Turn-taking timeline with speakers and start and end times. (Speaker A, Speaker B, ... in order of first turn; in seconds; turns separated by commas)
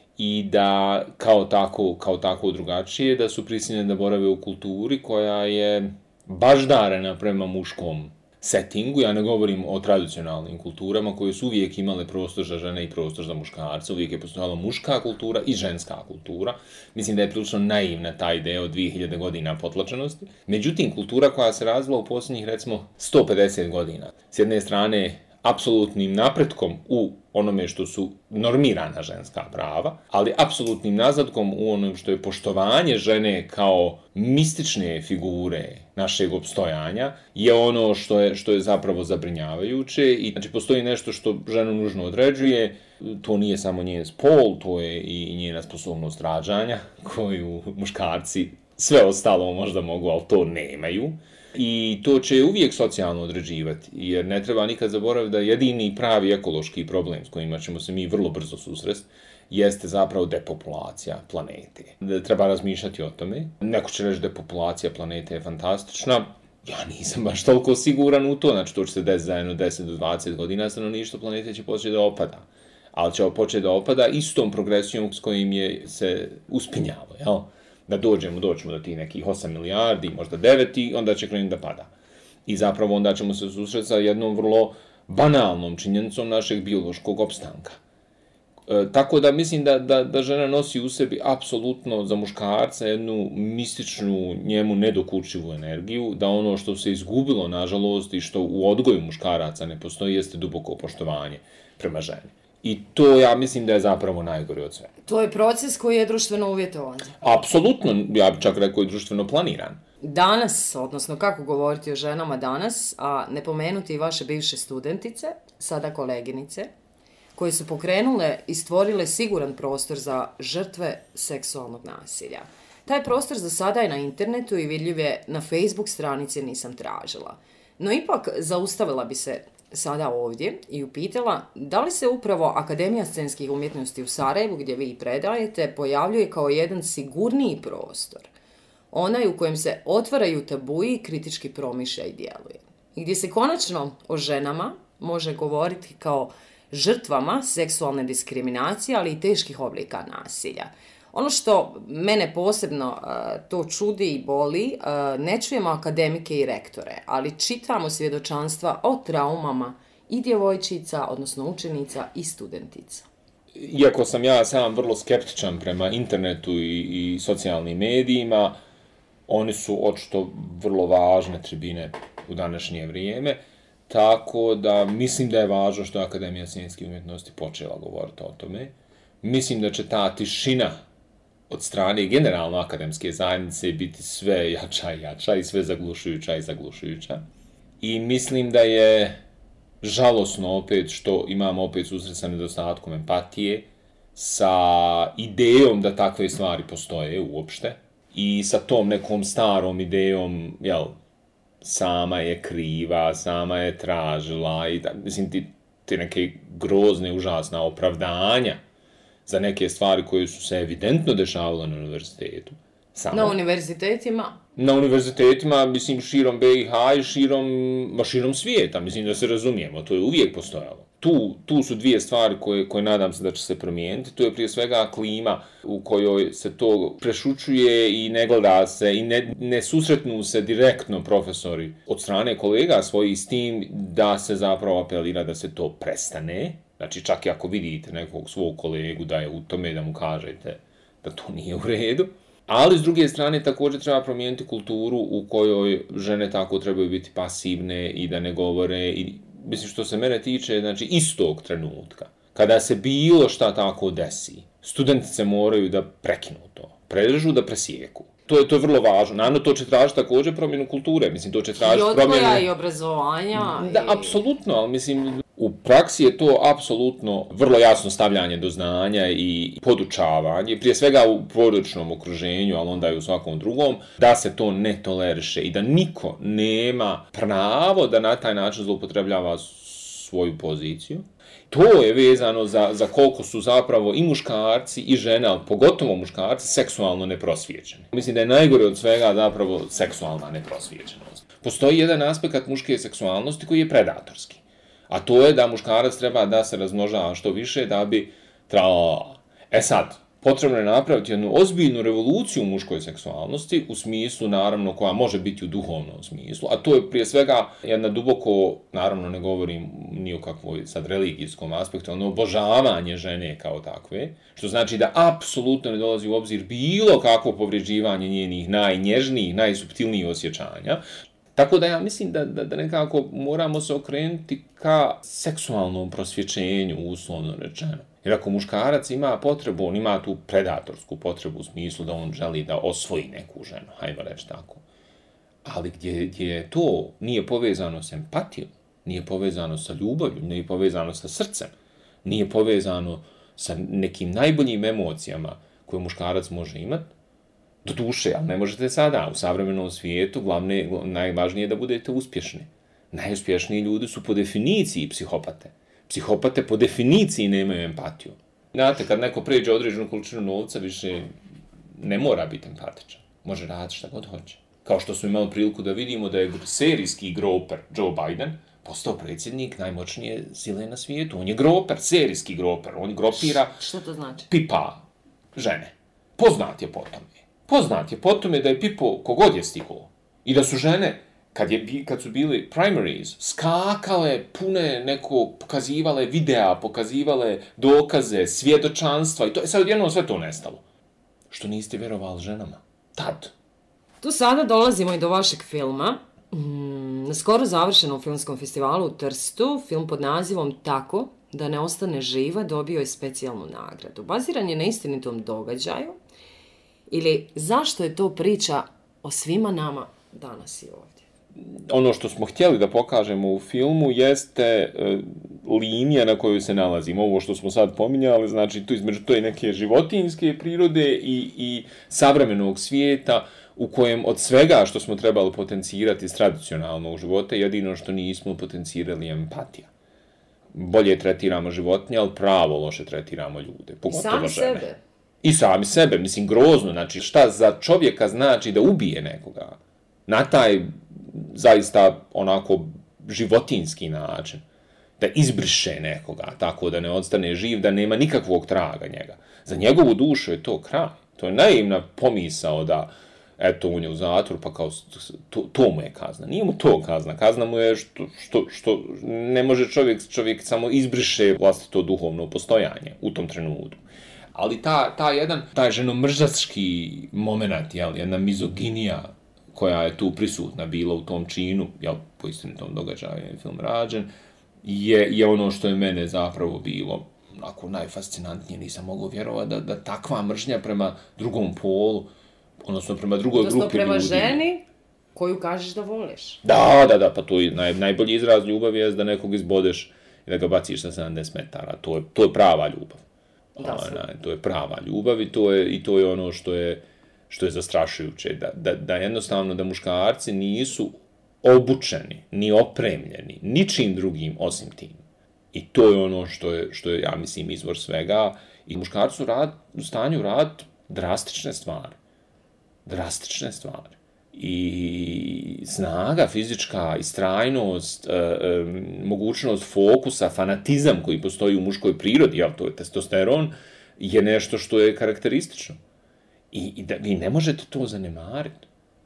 Speaker A: 0.2-81.9, Speaker A: 82.5-87.8, Speaker A: 88.7-104.9, Speaker B: 105.1-107.2, Speaker A: 107.2-109.8, Speaker B: 110.0-116.7, Speaker B: 117.3-138.3, Speaker B: 138.9-163.1, Speaker A: 163.6-168.6, Speaker A: 169.3-180.8, Speaker A: 181.5-187.2, Speaker A: 187.8-189.2, Speaker A: 189.8-201.0, Speaker A: 201.6-208.6, Speaker A: 209.3-213.4, Speaker B: 213.1-214.4, Speaker A: 214.6-262.5, Speaker B: 261.6-264.2, Speaker A: 263.3-320.8, Speaker A: 321.4-334.6, Speaker A: 335.4-341.5, Speaker A: 342.0-346.9, Speaker A: 347.6-361.1, Speaker A: 361.8-373.6, Speaker B: 373.2-374.3, Speaker A: 374.3-390.6, Speaker A: 391.3-393.3, Speaker B: 394.0-406.0, Speaker B: 406.9-411.1, Speaker A: 411.4-429.7, Speaker A: 430.5-434.6, Speaker B: 433.9-434.8, Speaker A: 435.2-444.4, Speaker A: 445.0-463.8, Speaker A: 464.3-474.1, Speaker A: 474.6-482.1, Speaker A: 482.6-484.4, Speaker B: 483.4-486.4, Speaker A: 486.4-493.0, Speaker A: 493.6-505.0, Speaker B: 493.6-494.0, Speaker A: 505.5-512.0, Speaker A: 512.9-525.8, Speaker A: 526.5-528.7